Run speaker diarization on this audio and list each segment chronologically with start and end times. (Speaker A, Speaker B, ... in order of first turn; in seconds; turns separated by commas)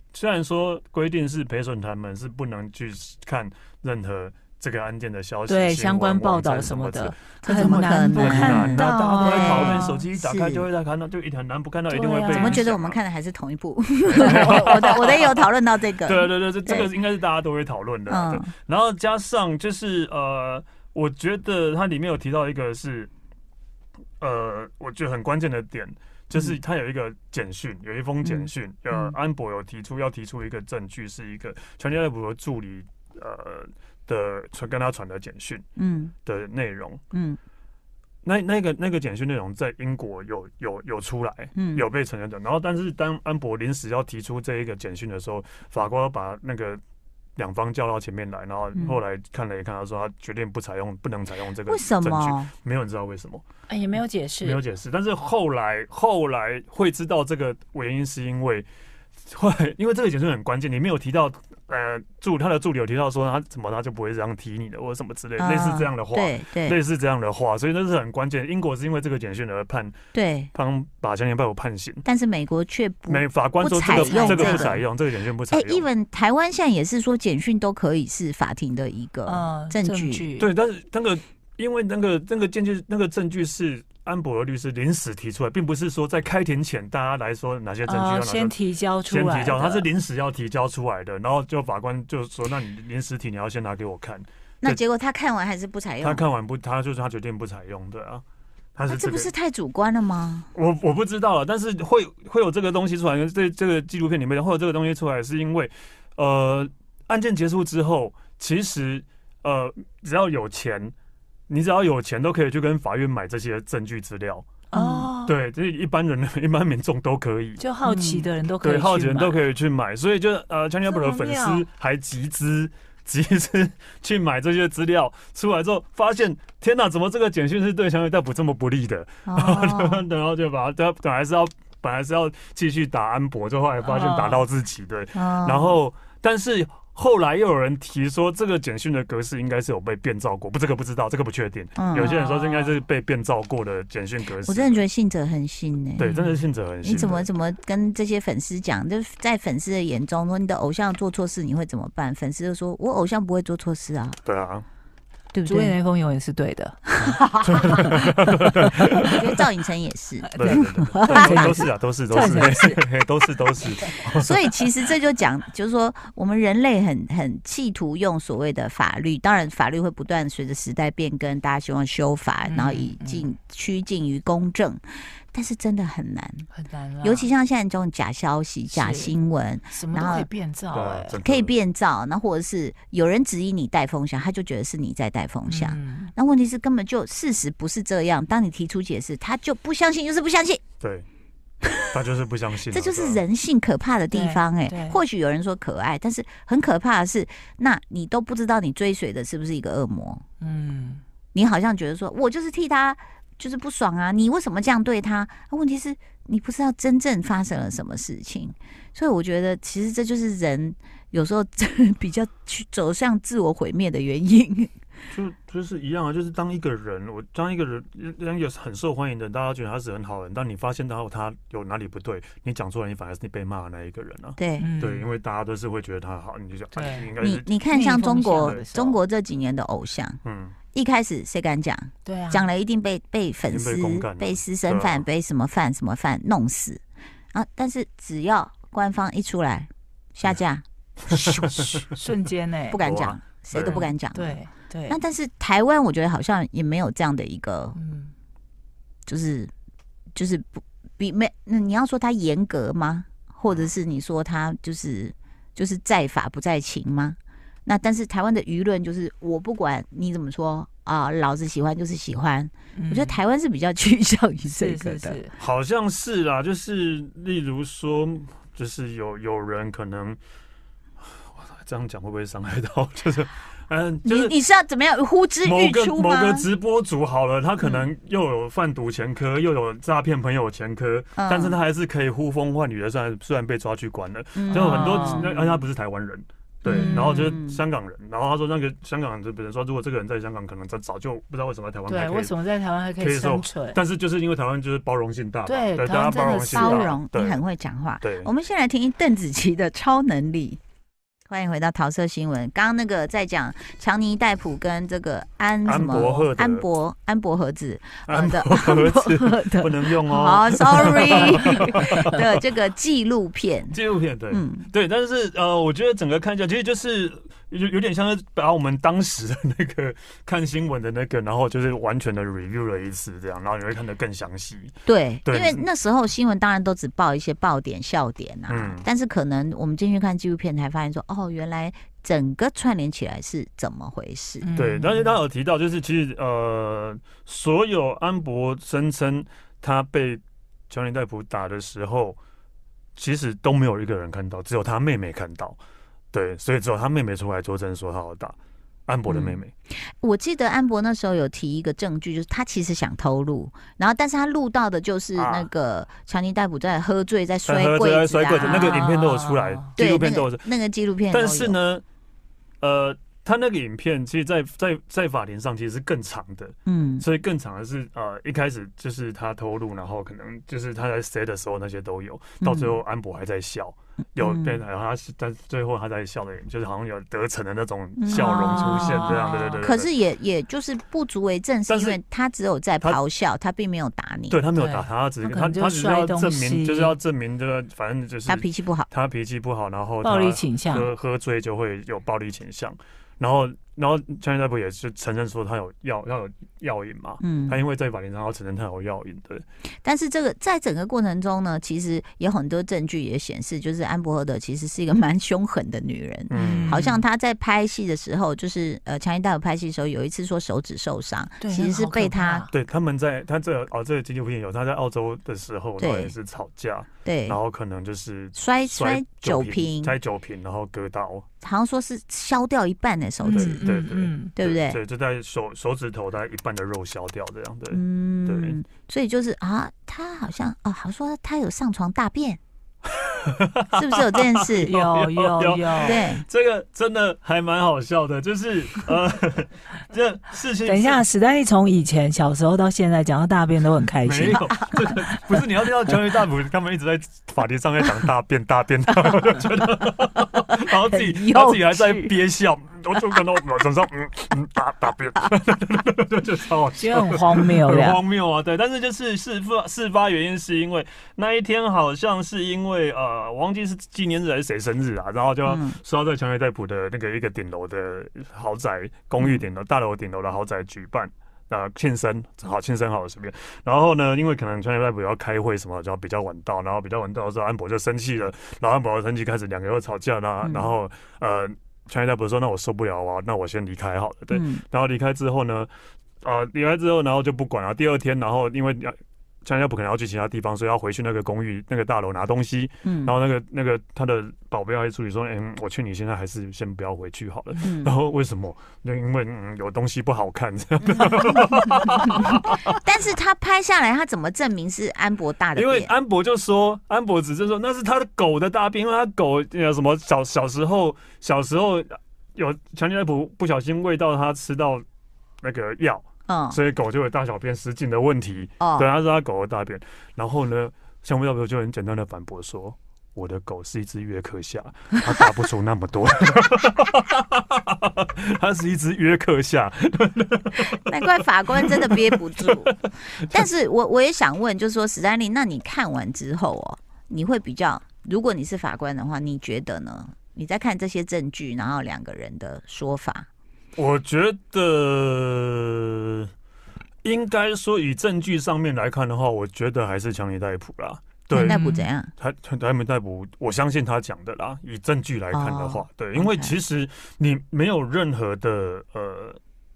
Speaker A: 0.1-13.0, Speaker B: 5.5-10.0, Speaker C: 7.4-10.7, Speaker B: 11.9-12.7, Speaker C: 12.3-16.9, Speaker A: 14.1-23.1, Speaker B: 14.2-14.7, Speaker C: 18.1-18.5, Speaker A: 24.2-35.6, Speaker C: 28.2-29.1, Speaker C: 35.8-36.1, Speaker A: 36.3-37.0, Speaker C: 37.1-37.4, Speaker A: 38.2-46.8, Speaker C: 41.5-41.9, Speaker A: 47.4-53.4, Speaker C: 51.7-52.5, Speaker B: 53.7-54.6, Speaker A: 54.4-58.7, Speaker A: 59.3-70.0, Speaker C: 65.4-66.8, Speaker C: 70.1-70.5, Speaker A: 70.5-72.0, Speaker C: 72.0-74.8, Speaker A: 73.1-75.8, Speaker B: 73.9-74.7, Speaker C: 75.5-80.3, Speaker B: 79.3-80.5, Speaker A: 80.4-94.8, Speaker B: 87.9-89.9, Speaker C: 94.6-96.2, Speaker A: 96.0-98.2, Speaker A: 98.8-99.3, Speaker C: 98.9-100.5, Speaker A: 100.5-110.9, Speaker A: 111.5-114.5, Speaker B: 114.7-115.3, Speaker C: 114.7-115.1, Speaker A: 115.2-117.6, Speaker B: 117.6-119.4, Speaker C: 117.8-118.3, Speaker A: 118.6-144.8, Speaker B: 120.9-121.7, Speaker C: 129.3-130.0, Speaker B: 133.8-134.4, Speaker C: 135.2-135.8, Speaker C: 141.8-142.1, Speaker B: 142.0-142.8, Speaker C: 144.4-146.1, Speaker A: 146.0-147.3, Speaker B: 146.0-146.4, Speaker C: 146.8-154.2, Speaker A: 154.2-154.7, Speaker C: 155.3-155.8, Speaker B: 155.5-157.2, Speaker C: 156.9-158.1, Speaker A: 157.4-159.4, Speaker C: 158.8-161.5, Speaker A: 160.3-164.3, Speaker B: 160.4-162.8, Speaker C: 162.2-162.6, Speaker C: 164.2-174.8, Speaker B: 172.5-173.3, Speaker C: 175.3-176.5, Speaker B: 176.5-177.3, Speaker C: 177.0-180.3, Speaker B: 178.7-179.1, Speaker B: 179.7-181.2, Speaker A: 180.7-181.5, Speaker C: 181.2-190.6, Speaker B: 185.5-186.1, Speaker A: 190.8-191.1, Speaker A: 191.9-193.2, Speaker C: 192.7-200.2, Speaker B: 194.1-195.0, Speaker B: 200.4-201.0, Speaker C: 201.3-214.7, Speaker A: 215.1-227.5, Speaker C: 224.4-224.7, Speaker B: 224.6-225.1, Speaker B: 226.8-227.1, Speaker C: 227.2-230.2, Speaker B: 227.7-228.9, Speaker A: 228.4-228.9, Speaker A: 230.2-230.6, Speaker C: 230.7-236.8, Speaker B: 232.1-232.5, Speaker A: 233.5-235.0, Speaker C: 237.3-241.8, Speaker A: 241.1-241.9, Speaker B: 241.9-242.8, Speaker C: 242.7-247.8, Speaker A: 242.8-243.9, Speaker B: 243.6-245.0, Speaker B: 247.8-248.1, Speaker C: 249.1-249.5, Speaker C: 250.2-265.2, Speaker B: 262.8-263.2, Speaker B: 264.6-265.4, Speaker A: 265.4-270.2, Speaker A: 271.0-274.4, Speaker C: 274.1-276.5, Speaker A: 275.4-292.3, Speaker C: 277.6-277.9, Speaker C: 281.2-281.6, Speaker C: 284.4-285.6, Speaker B: 284.5-285.3, Speaker C: 286.6-287.6, Speaker B: 286.7-287.4, Speaker B: 291.9-293.8, Speaker A: 293.0-297.4, Speaker B: 295.5-297.0, Speaker C: 296.5-300.6, Speaker A: 298.0-298.3, Speaker C: 301.3-313.8, Speaker A: 305.6-306.7, Speaker A: 308.1-312.3, Speaker B: 310.8-311.5, Speaker A: 313.7-325.7, Speaker C: 314.3-314.7, Speaker C: 324.9-334.5, Speaker A: 328.5-328.9, Speaker B: 334.4-335.2, Speaker A: 334.6-342.2, Speaker A: 343.0-345.6, Speaker A: 346.1-348.4, Speaker A: 348.9-349.5, Speaker C: 349.1-349.4, Speaker C: 350.0-358.9, Speaker A: 355.2-355.5, Speaker A: 357.4-360.5, Speaker B: 358.4-359.7, Speaker C: 359.8-361.6, Speaker A: 361.1-361.8, Speaker A: 362.6-379.9, Speaker C: 366.7-367.1, Speaker C: 372.4-372.8, Speaker C: 374.2-374.6, Speaker C: 378.0-384.4, Speaker B: 378.1-379.6, Speaker A: 381.7-382.0, Speaker A: 384.3-399.4, Speaker B: 384.6-387.0, Speaker C: 388.3-388.9, Speaker B: 390.0-390.9, Speaker C: 397.2-397.6, Speaker C: 399.8-412.5, Speaker A: 406.3-406.8, Speaker B: 406.3-407.0, Speaker B: 411.4-412.5, Speaker A: 412.5-421.3, Speaker C: 415.8-416.1, Speaker C: 417.1-417.4, Speaker C: 418.4-419.9, Speaker C: 421.4-423.6, Speaker B: 423.2-424.3, Speaker A: 423.3-428.6, Speaker C: 424.4-424.8, Speaker C: 427.7-432.4, Speaker A: 433.0-441.0, Speaker C: 433.7-434.7, Speaker B: 434.7-436.0, Speaker C: 435.8-436.2, Speaker B: 440.6-445.1, Speaker A: 444.0-485.7, Speaker C: 450.9-452.1, Speaker B: 456.8-458.0, Speaker C: 465.5-465.8, Speaker C: 480.4-480.7, Speaker C: 484.3-484.6, Speaker A: 486.2-502.7, Speaker C: 492.8-493.1, Speaker C: 497.6-498.0, Speaker C: 500.9-501.4, Speaker C: 502.7-505.9, Speaker A: 505.6-514.8, Speaker A: 515.4-530.8, Speaker C: 516.3-516.6, Speaker C: 518.6-518.9, Speaker C: 530.6-543.3, Speaker A: 531.6-532.9, Speaker A: 543.8-546.3, Speaker A: 547.0-551.6, Speaker C: 551.3-552.1, Speaker B: 551.3-551.9, Speaker A: 552.2-559.4, Speaker C: 555.3-556.6